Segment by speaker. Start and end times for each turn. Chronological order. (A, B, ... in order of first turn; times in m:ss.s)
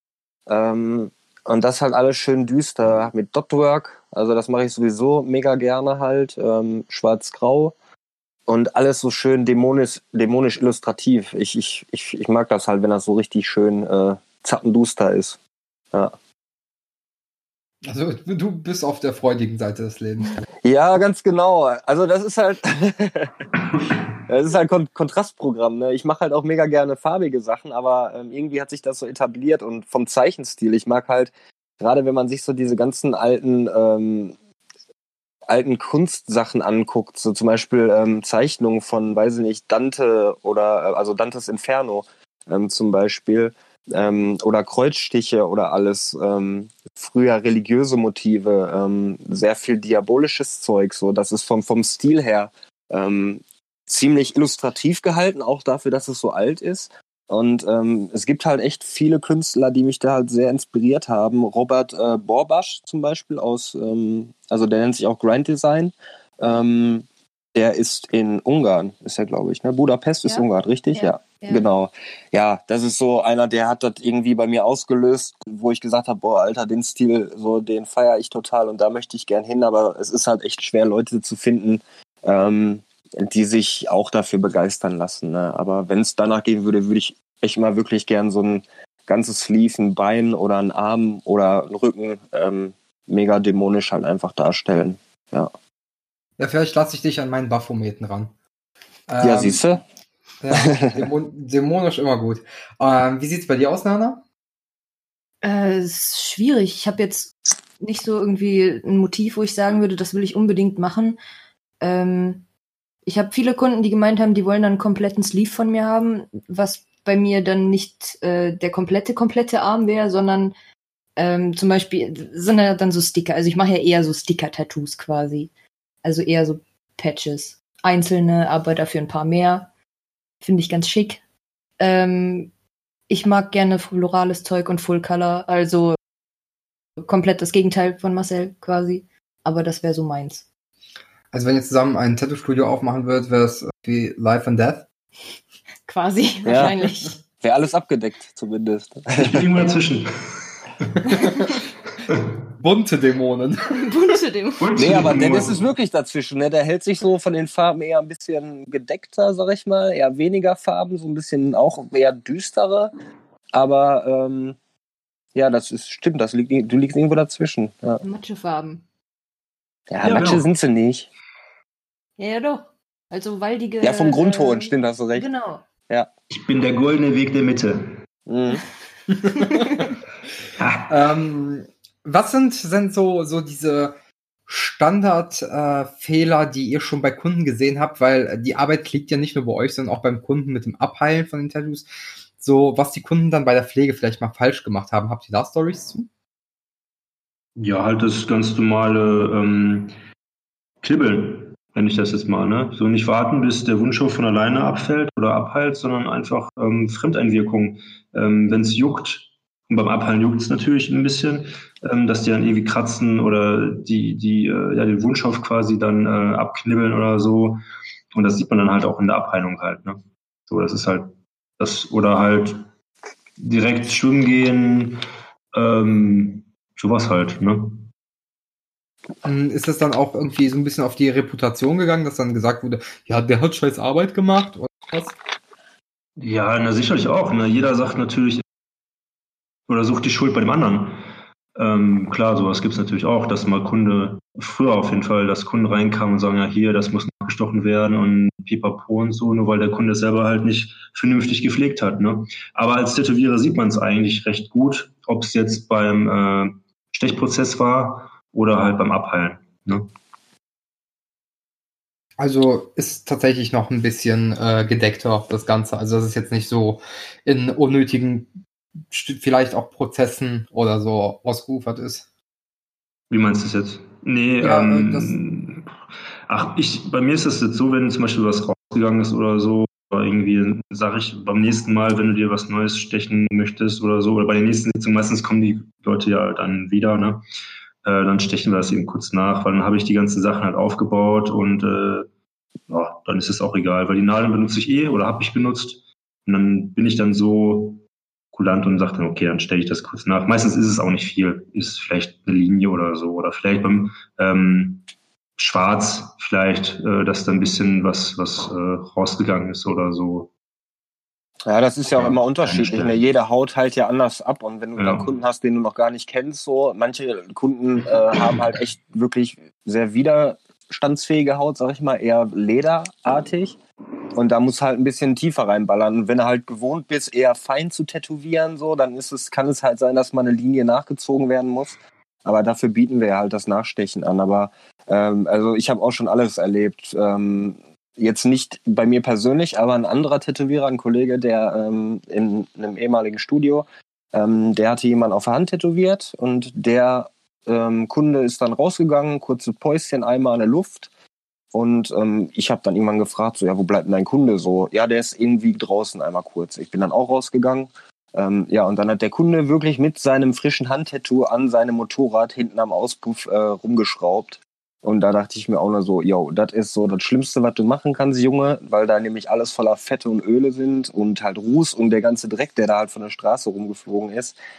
0:00.5-0:07.7 A
0:08.5-0:15.4 A
0:17.8-0:20.4 B
0:20.6-0:23.3 A
0:24.3-0:34.4 A
0:35.5-1:35.5 A
1:10.3-1:11.6 C
1:36.4-1:38.3 B
1:39.1-1:39.6 B
1:39.2-1:39.8 A
1:40.4-1:44.2 B
1:40.5-1:41.1 A
1:45.4-1:51.2 C
1:51.8-1:52.4 C
1:53.0-2:00.5 C
2:01.2-2:05.5 C
2:06.0-2:09.7 C
2:10.4-2:11.2 C
2:11.8-2:12.5 C
2:13.1-2:16.0 C
2:17.0-2:20.4 C
2:21.3-2:24.9 B
2:25.8-2:27.2 C
2:26.4-2:26.8 A
2:27.4-2:29.6 A
2:29.2-2:30.1 D
2:31.1-2:31.4 B
2:32.6-2:33.8 B
2:33.7-2:34.8 C
2:34.6-2:35.6 D
2:34.8-2:42.9 A
2:43.5-2:44.6 A
2:45.3-2:48.0 A
2:48.0-2:48.8 C
2:49.9-2:51.1 A
2:50.0-2:50.4 D
2:52.2-2:55.6 C
2:53.8-2:55.3 A
2:56.3-2:57.9 D
2:58.3-2:58.6 A
2:59.2-2:59.8 B
2:59.5-2:59.8 C
3:00.6-3:00.9 D
3:00.9-3:03.9 B
3:04.5-3:16.1 B
3:17.6-3:19.9 D
3:20.8-3:42.7 D
3:43.4-3:45.0 D
3:45.5-3:47.9 D
3:49.2-3:55.2 B
3:56.2-3:58.4 D
3:59.7-4:01.0 D
4:01.6-4:19.9 D
4:22.2-4:28.3 B
4:28.9-4:32.1 B
4:33.1-4:35.7 D
4:34.4-4:35.2 B
4:36.3-4:47.2 D
4:47.8-4:52.1 D
4:52.7-4:57.8 D
4:58.3-5:04.8 D
5:05.4-5:10.3 D
5:11.4-5:23.6 A
5:11.9-5:13.0 D
5:14.8-5:15.0 D
5:24.1-5:50.9 A
5:51.5-6:14.4 A